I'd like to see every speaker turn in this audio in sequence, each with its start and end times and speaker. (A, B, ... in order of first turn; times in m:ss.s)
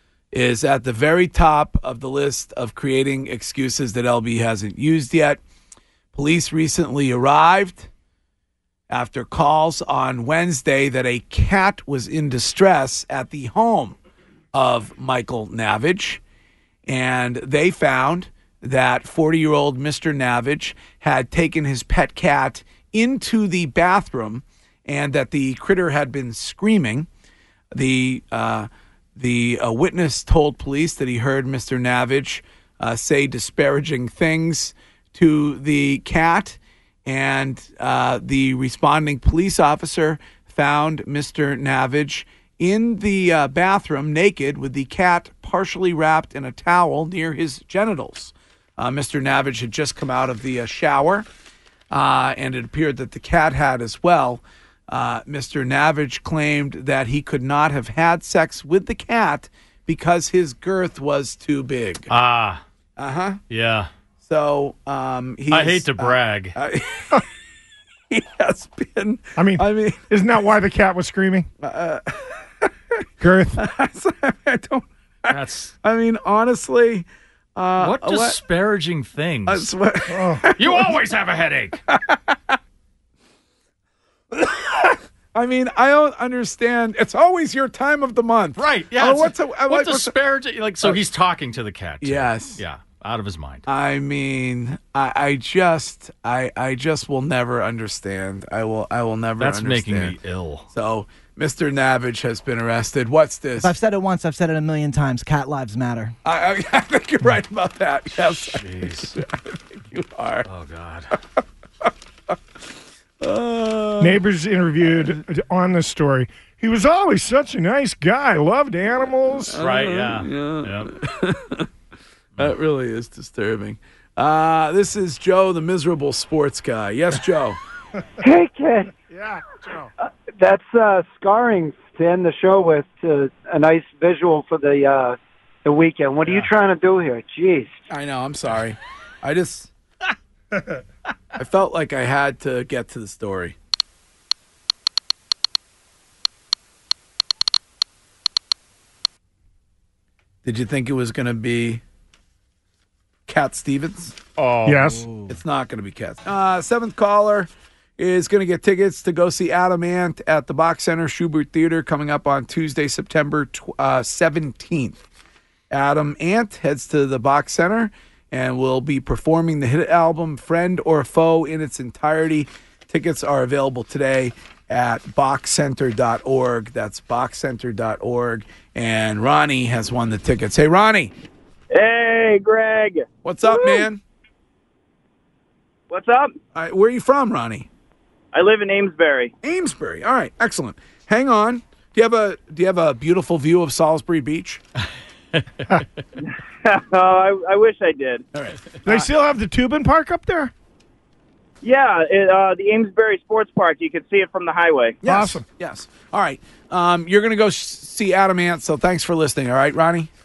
0:00.3-0:05.4 A
0:06.1-0:07.9 A
0:08.9-0:14.0 A
0:14.5-0:16.2 A
0:16.8-0:27.1 A
0:27.7-0:51.3 A
0:51.9-1:02.1 A
1:02.1-1:02.6 B
1:03.0-1:03.4 A
1:03.5-1:03.9 B
1:04.2-1:07.2 A
1:05.5-1:06.6 B
1:08.1-1:10.1 A
1:09.4-1:11.5 C
1:11.6-1:13.0 A
1:13.2-1:13.6 C
1:13.6-1:18.4 A
1:15.3-1:15.7 B
1:17.8-1:19.7 B
1:19.4-1:20.9 A
1:20.1-1:20.4 C
1:20.6-1:21.8 B
1:21.9-1:22.6 A
1:24.3-1:30.1 A
1:28.6-1:33.7 B
1:32.0-1:32.6 A
1:33.7-1:40.2 A
1:39.4-1:40.7 B
1:40.7-1:43.7 A
1:43.6-1:46.1 D
1:46.2-1:50.5 A
1:48.2-1:49.2 B
1:50.4-1:51.1 B
1:53.2-1:54.2 A
1:54.0-1:59.6 C
1:54.8-1:55.2 A
1:59.5-2:01.7 A
1:59.6-2:00.9 B
2:02.4-2:07.6 A
2:08.2-2:08.9 E
2:09.1-2:09.9 C
2:10.4-2:17.8 E
2:16.2-2:16.5 A
2:17.9-2:19.7 A
2:21.4-2:23.6 A
2:30.4-2:31.8 A
2:33.3-2:34.2 A
2:34.4-2:35.0 B
2:34.6-2:35.0 C
2:35.0-2:35.3 D
2:35.3-2:45.0 A
2:45.7-3:01.1 A
3:01.7-3:03.8 F
3:03.2-3:04.0 A
3:05.9-3:06.4 F
3:06.5-3:07.7 A
3:08.3-3:09.3 F
3:09.4-3:14.6 A
3:16.2-3:18.2 F
3:18.3-3:19.1 A
3:18.8-3:20.5 C
3:21.6-3:25.0 F
3:25.0-3:30.1 A
3:25.0-3:25.4 C